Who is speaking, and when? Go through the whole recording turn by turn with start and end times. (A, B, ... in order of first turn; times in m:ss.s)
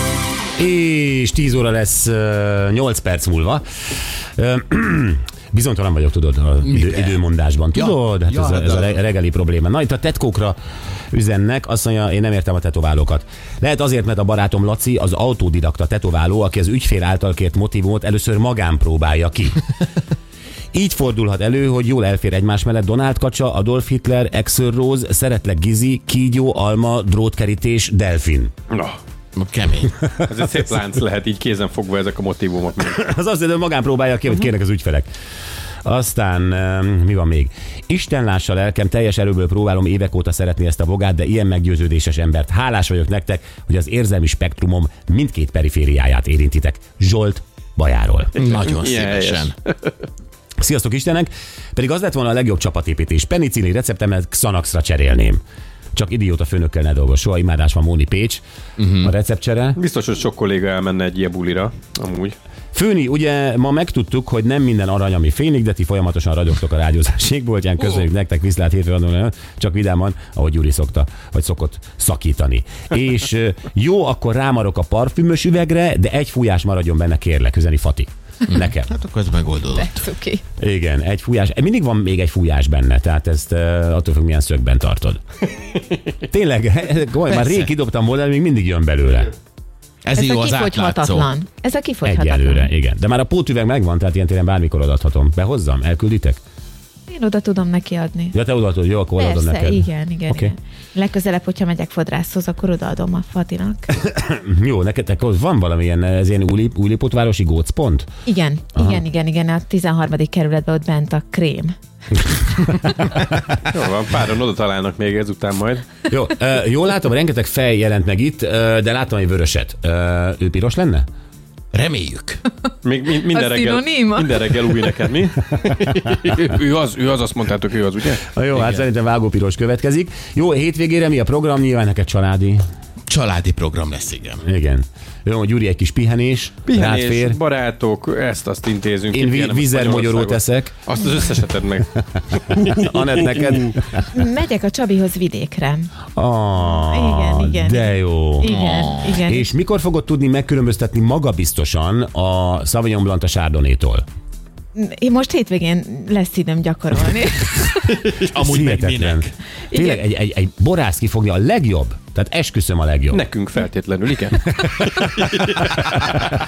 0:00.6-0:03.6 A
0:04.4-0:10.6 A
0:06.8-0:07.1 B
0:07.8-0:08.7 B
0:11.1-0:19.6 A
0:20.7-0:28.5 A
0:28.7-0:29.0 C
0:29.4-0:30.0 B
0:30.2-0:33.0 C
0:32.8-0:35.1 A
0:35.8-0:48.4 A
0:48.4-0:49.9 C
0:48.4-0:49.6 B
0:50.6-0:55.4 A
0:56.0-0:58.4 A
0:58.8-0:59.1 B
0:59.0-0:59.8 A
0:59.8-1:02.4 C
1:02.7-1:18.9 A
1:18.5-1:20.1 B
1:19.7-1:20.4 D
1:20.6-1:25.2 A
1:26.2-1:29.3 A
1:30.0-1:31.3 B
1:30.2-1:32.7 D
1:32.0-1:36.4 A
1:37.1-1:38.4 D
1:38.3-1:40.6 A
1:39.2-1:44.1 D
1:44.0-1:48.1 A
1:48.3-1:51.8 D
1:53.7-1:55.9 C
1:56.1-2:01.1 A
2:01.7-2:02.4 B
2:02.8-2:08.7 C
2:03.3-2:04.4 D
2:08.3-2:12.6 A
2:13.1-2:14.4 B
2:14.4-2:17.4 A
2:16.7-2:23.8 C
2:19.1-2:20.8 A
2:22.2-2:24.0 A
2:24.0-2:25.9 D
2:26.2-2:34.0 A
2:26.6-2:29.5 D
2:28.5-2:29.1 B
2:34.8-2:38.1 D
2:38.1-2:39.3 B
2:38.4-2:43.2 A
2:39.7-2:40.0 D
2:43.1-2:46.1 C